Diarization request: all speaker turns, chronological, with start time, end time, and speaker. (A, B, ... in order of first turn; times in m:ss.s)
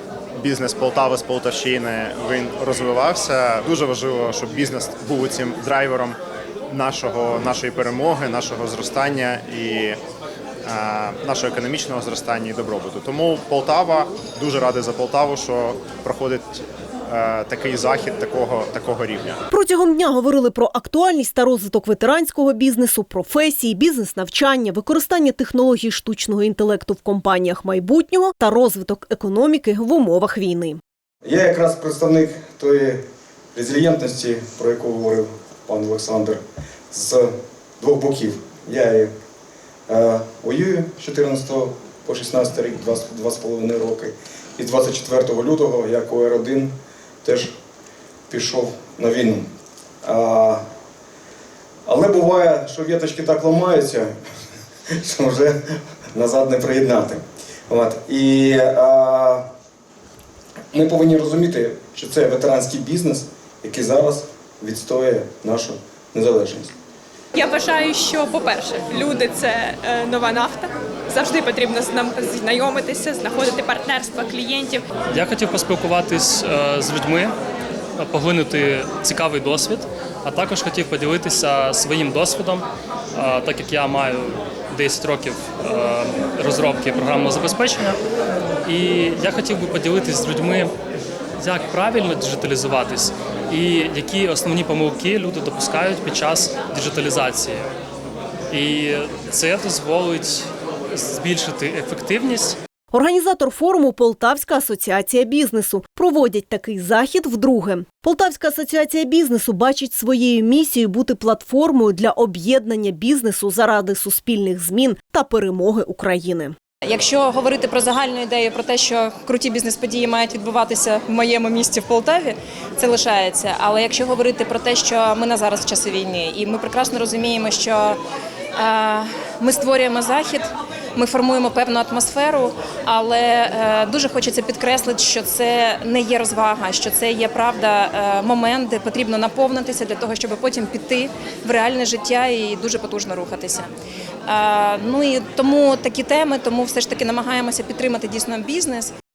0:00.4-0:06.2 A
0:06.7-0:10.0 A
0:10.7-0:19.4 A
0:19.5-0:30.8 B
0:31.2-0:39.1 C
0:39.9-0:47.6 C
0:48.3-0:49.5 C
0:50.0-0:50.6 C
0:51.9-0:54.1 C
0:55.0-0:59.5 C
1:00.7-1:06.7 C
1:07.4-1:14.8 D
1:15.1-1:17.3 E
1:18.0-1:28.0 E
1:28.6-1:30.7 E
1:31.4-1:37.7 E
1:38.5-1:42.6 E
1:42.9-1:56.5 B
1:56.8-2:08.0 F
2:08.6-2:23.7 F
2:24.3-2:28.9 F